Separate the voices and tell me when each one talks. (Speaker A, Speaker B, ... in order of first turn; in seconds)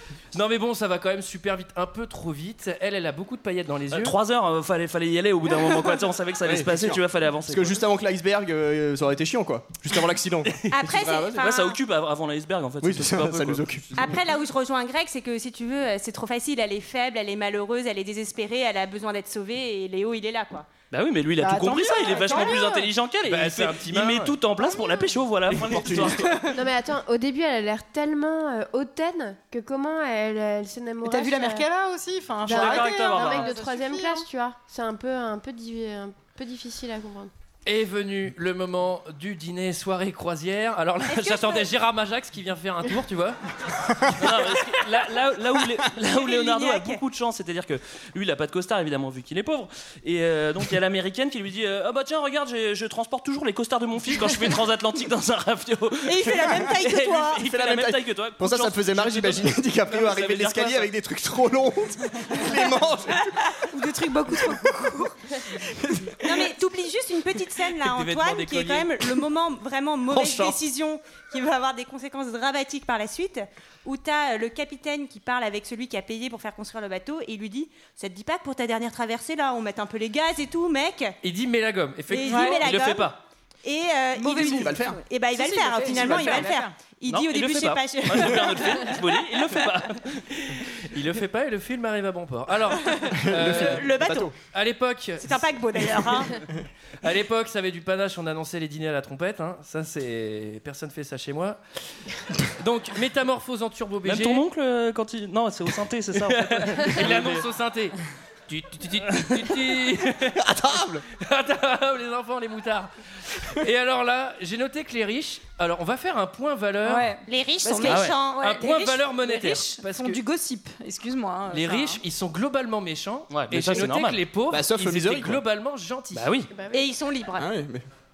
Speaker A: 0.3-4.1, 23.3-24.4, 25.5-26.2, 37.6-43.4, 67.8-69.1, 81.2-83.2, 90.3-96.1, 97.0-101.6, 102.6-104.4, 106.3-108.0, 108.5-110.4, 111.1-117.1, 117.9-120.2, 121.5-126.3
Speaker B: 3.9-7.8, 11.3-14.1, 20.9-26.4, 32.5-33.5, 44.1-60.9, 87.1-90.2, 104.0-107.4, 117.9-118.1, 123.3-124.2, 126.1-126.5
Speaker C: 6.4-11.5, 12.8-14.1, 25.7-26.2, 57.4-63.3, 65.7-66.2, 70.1-70.5, 84.4-85.0, 93.1-94.3, 110.3-111.0, 124.5-125.4, 127.4-127.8
Speaker D: 10.7-11.8, 14.0-20.7, 21.9-22.8, 41.1-41.7, 46.0-47.0, 56.0-57.4, 66.2-81.2, 82.1-83.1, 83.6-88.9, 93.5-94.3, 95.2-96.3, 117.2-119.0, 126.7-127.5
Speaker E: 21.5-21.8, 31.0-34.2, 63.7-65.2, 82.2-82.6, 84.1-86.7, 116.8-122.0
Speaker F: 26.5-31.7, 32.4-37.3, 126.5-126.8